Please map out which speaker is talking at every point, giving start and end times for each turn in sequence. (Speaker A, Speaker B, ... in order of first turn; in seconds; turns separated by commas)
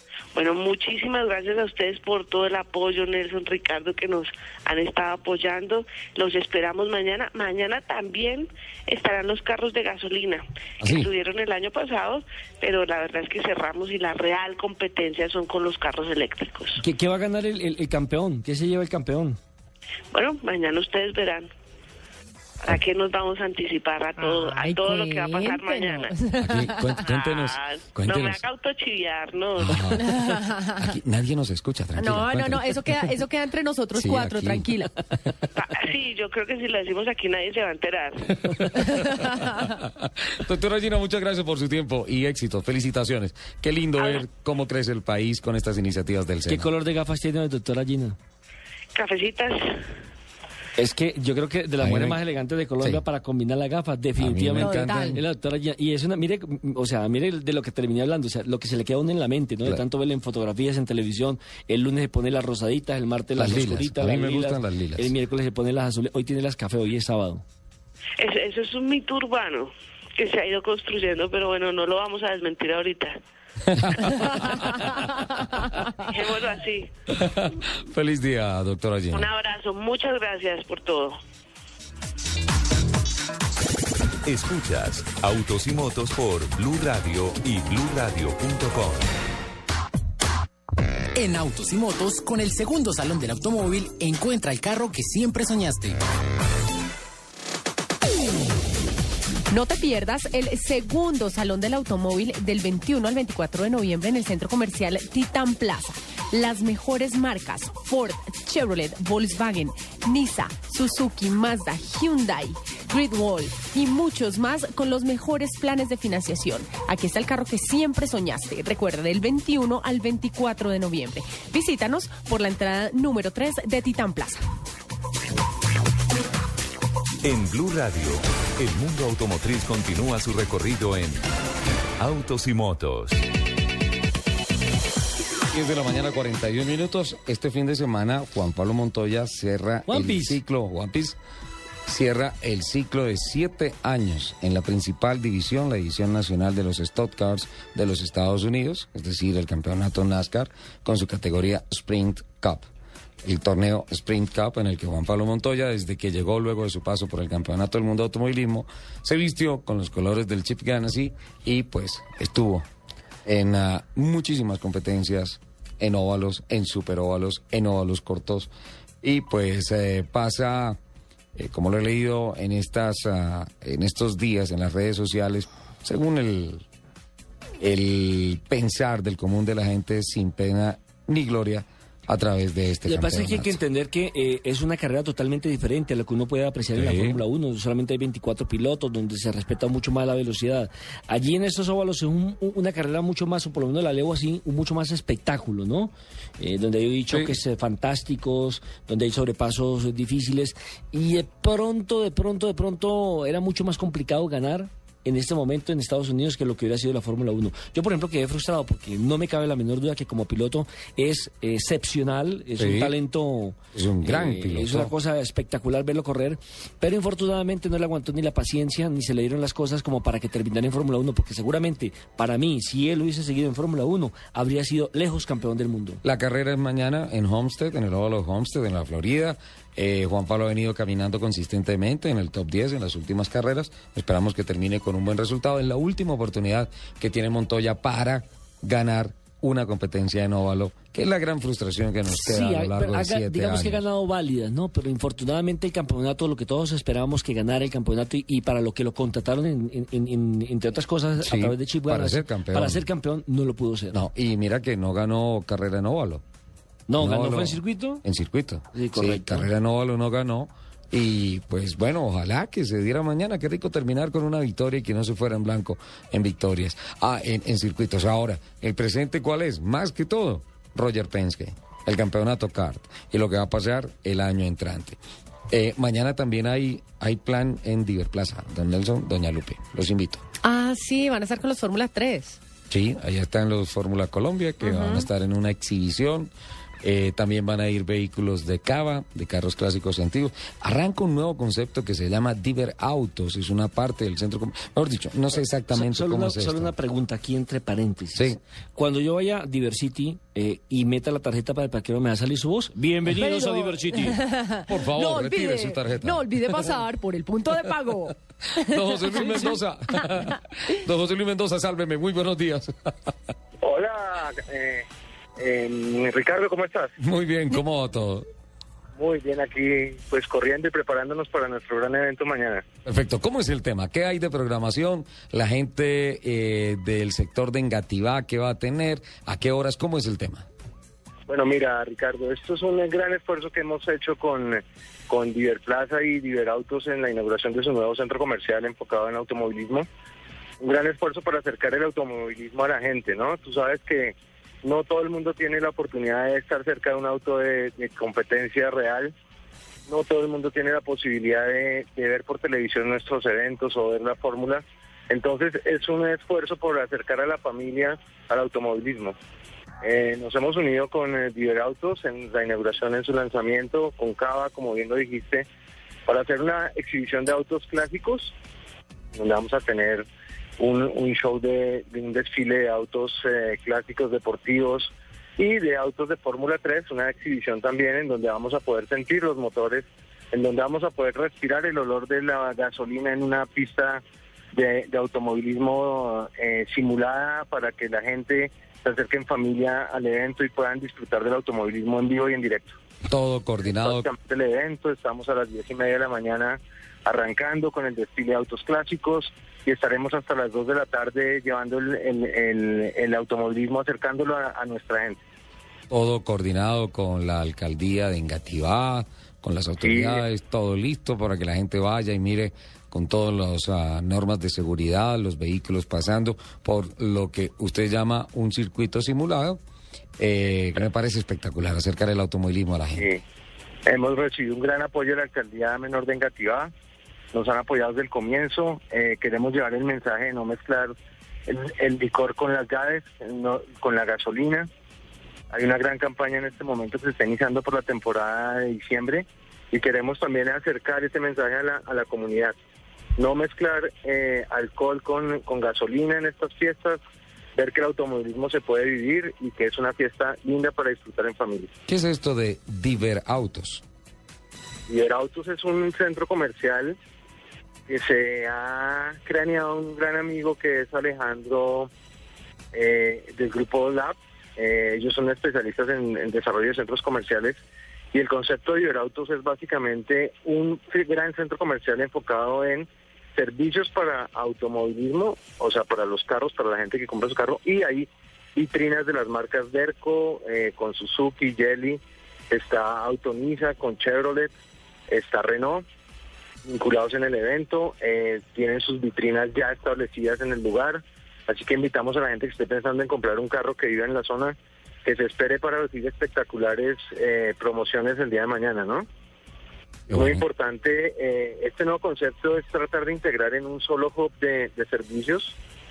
Speaker A: 0.3-16.8, Speaker B: 10.8-11.1, Speaker C: 16.8-19.4, Speaker A: 20.1-21.5, Speaker A: 22.6-26.1, Speaker D: 24.2-26.9, Speaker B: 26.4-28.4, Speaker A: 27.0-30.0, Speaker B: 29.6-33.1, Speaker D: 30.0-30.8, Speaker D: 32.0-34.9, Speaker B: 34.0-34.8, Speaker A: 35.6-38.9, Speaker B: 38.8-46.7, Speaker D: 39.0-39.6, Speaker A: 44.0-44.2, Speaker C: 46.5-48.2, Speaker A: 49.0-49.8, Speaker C: 50.8-67.4, Speaker B: 51.8-52.2, Speaker B: 54.2-55.2, Speaker D: 54.6-55.2, Speaker B: 63.4-65.1, Speaker A: 68.2-73.2, Speaker B: 73.7-74.8, Speaker A: 74.0-74.8, Speaker A: 76.0-76.9, Speaker B: 77.1-79.3, Speaker A: 79.1-81.2, Speaker E: 84.3-89.1, Speaker F: 91.2-96.0, Speaker D: 99.5-124.4, Speaker E: 127.2-131.2, Speaker E: 132.0-133.2, Speaker B: 135.5-141.2, Speaker C: 139.9-140.4, Speaker B: 141.9-152.7, Speaker B: 153.2-162.7, Speaker B: 163.2-168.5, Speaker B: 169.0-170.8, Speaker B: 171.3-176.6, Speaker B: 177.6-183.6, Speaker C: 182.9-226.0, Speaker B: 186.7-187.2, Speaker B: 212.6-212.9, Speaker B: 213.7-214.9, Speaker B: 226.0-243.8, Speaker C: 242.1-254.0, Speaker B: 251.2-252.9, Speaker B: 253.9-256.2, Speaker C: 256.9-258.0, Speaker B: 257.0-275.0, Speaker C: 258.7-259.5, Speaker B: 275.5-280.2, Speaker D: 280.4-282.4, Speaker B: 282.7-296.7, Speaker D: 284.6-285.1, Speaker C: 295.7-304.2, Speaker D: 303.1-310.3, Speaker B: 304.7-306.3, Speaker B: 308.6-312.7, Speaker G: 313.6-314.9, Speaker G: 315.4-316.9, Speaker B: 317.0-318.3, Speaker G: 319.0-322.6, Speaker B: 322.9-330.5, Speaker G: 331.3-339.9, Speaker G: 340.6-349.1, Speaker G: 349.9-359.2, Speaker G: 359.8-365.5, Speaker G: 366.1-368.3, Speaker G: 369.1-370.1, Speaker G: 370.6-384.0, Speaker G: 384.5-392.8, Speaker B: 393.1-394.1, Speaker G: 393.7-405.2, Speaker B: 405.9-419.6, Speaker G: 409.8-410.2, Speaker B: 420.2-423.1, Speaker G: 423.9-426.7, Speaker G: 427.3-430.9, Speaker G: 431.5-434.7, Speaker G: 435.5-442.6, Speaker G: 443.2-447.0, Speaker G: 447.6-451.7, Speaker B: 451.9-453.8, Speaker G: 454.9-457.0, Speaker G: 457.9-461.9, Speaker G: 462.7-467.6, Speaker G: 468.1-482.0, Speaker G: 482.5-484.5, Speaker G: 485.1-485.8, Speaker G: 486.6-499.1, Speaker B: 500.1-500.4, Speaker G: 500.1-505.6